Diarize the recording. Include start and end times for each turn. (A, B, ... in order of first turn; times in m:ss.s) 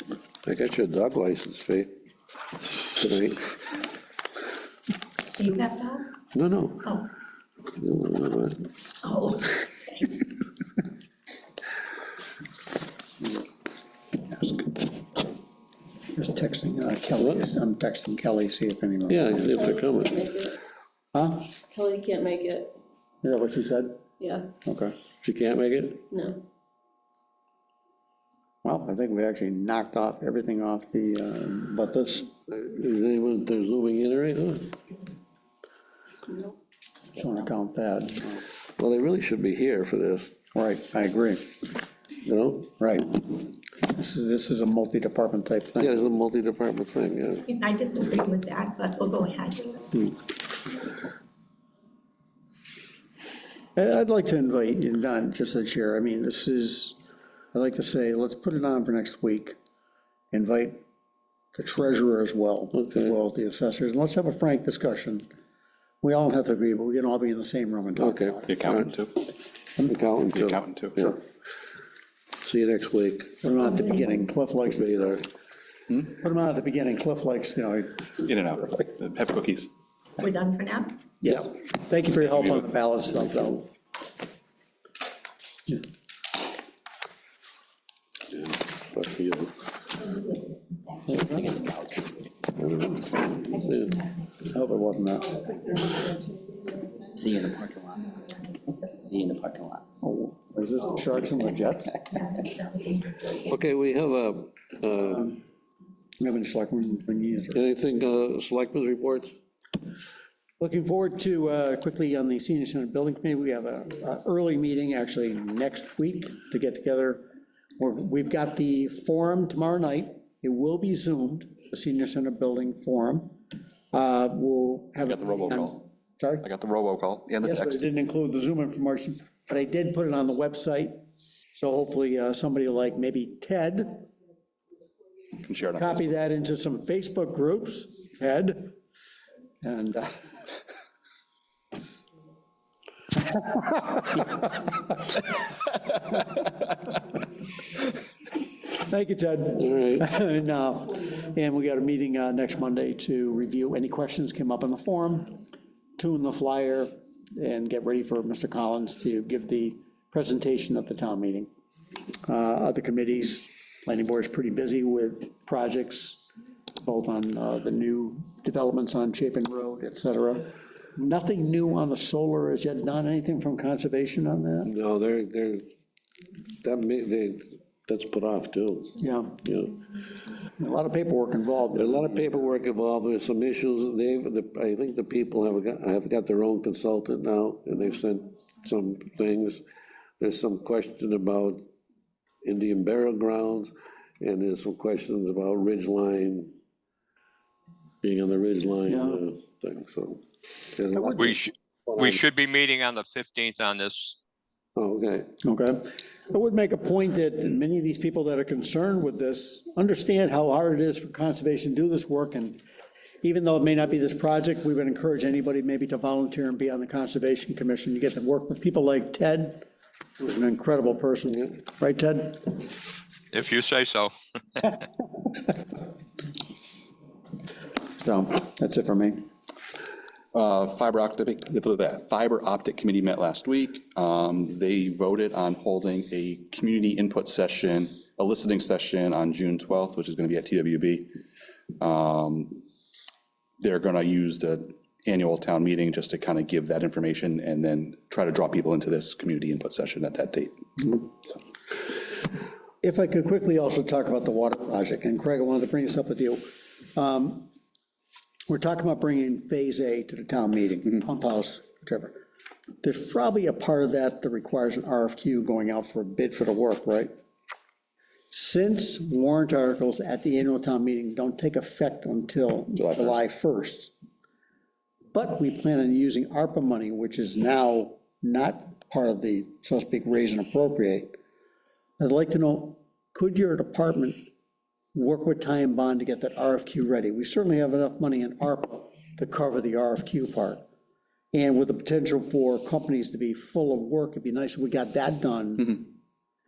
0:00.4-0:01.9 A
0:02.7-0:03.5 A
0:05.4-0:06.1 B
0:06.3-0:07.0 A
0:07.8-0:08.6 A
0:09.0-0:09.6 B
0:16.1-0:19.8 C
0:17.2-0:17.5 A
0:19.1-0:20.3 A
0:19.5-0:20.6 D
0:21.1-0:21.5 C
0:21.7-0:22.8 D
0:23.2-0:24.0 C
0:24.2-0:24.5 D
0:24.6-0:25.0 C
0:25.2-0:26.1 A
0:26.1-0:26.4 D
0:28.6-0:32.3 C
0:32.5-0:34.8 A
0:37.1-0:38.4 C
0:38.8-0:40.3 A
0:40.6-0:41.5 C
0:42.2-0:42.7 A
0:42.8-0:43.2 C
0:43.8-0:46.0 C
0:45.8-0:47.5 A
0:47.5-0:49.8 B
0:53.8-0:57.0 C
0:57.5-0:59.6 C
1:00.3-1:00.8 C
1:01.5-1:05.3 C
1:02.7-1:03.2 A
1:06.0-1:08.6 C
1:08.0-1:08.9 A
1:08.5-1:09.2 E
1:09.8-1:11.2 A
1:10.3-1:11.0 E
1:12.4-1:13.4 A
1:13.4-1:14.9 C
1:14.7-1:15.3 A
1:16.0-1:18.1 C
1:18.2-1:19.7 E
1:20.2-1:21.0 B
1:21.2-1:23.7 C
1:28.3-1:29.6 A
1:31.1-1:32.3 F
1:32.6-1:34.0 A
1:34.5-1:35.7 C
1:37.1-1:38.2 F
1:38.7-1:39.8 F
1:40.0-1:42.0 C
1:42.3-1:43.2 B
1:43.5-1:45.3 A
1:45.0-1:45.4 C
1:46.2-1:47.6 C
1:47.5-1:49.4 A
1:50.6-1:57.3 C
1:57.8-2:03.4 C
2:03.9-2:06.5 C
2:05.1-2:05.8 E
2:06.4-2:07.8 E
2:07.4-2:11.0 C
2:11.5-2:14.0 C
2:15.4-2:16.1 E
2:15.7-2:18.8 C
2:19.6-2:20.2 C
2:23.2-2:24.4 C
2:28.7-2:35.4 C
2:29.6-2:30.0 A
2:36.0-2:41.5 C
2:42.2-2:46.2 C
2:46.8-2:54.7 C
2:54.6-2:55.7 A
2:56.6-2:59.8 A
2:59.0-2:59.4 C
3:00.6-3:02.4 C
3:01.8-3:09.6 A
3:10.2-3:11.7 A
3:12.4-3:16.6 A
3:18.0-3:20.2 A
3:18.9-3:19.2 C
3:20.7-3:22.2 A
3:20.9-3:21.4 C
3:21.2-3:24.2 G
3:24.8-3:25.3 A
3:25.4-3:32.6 C
3:33.2-3:39.6 C
3:40.2-3:42.6 C
3:43.3-3:44.8 G
3:48.0-3:49.3 C
3:50.3-4:01.2 E
4:01.8-4:02.6 E
4:03.6-4:11.0 E
4:12.8-4:17.5 C
4:18.5-4:22.2 C
4:22.8-4:27.1 C
4:28.3-4:33.9 C
4:32.8-4:33.1 E
4:35.1-4:41.2 C
4:42.0-4:44.2 C
4:44.9-4:50.6 C
4:51.3-4:55.9 C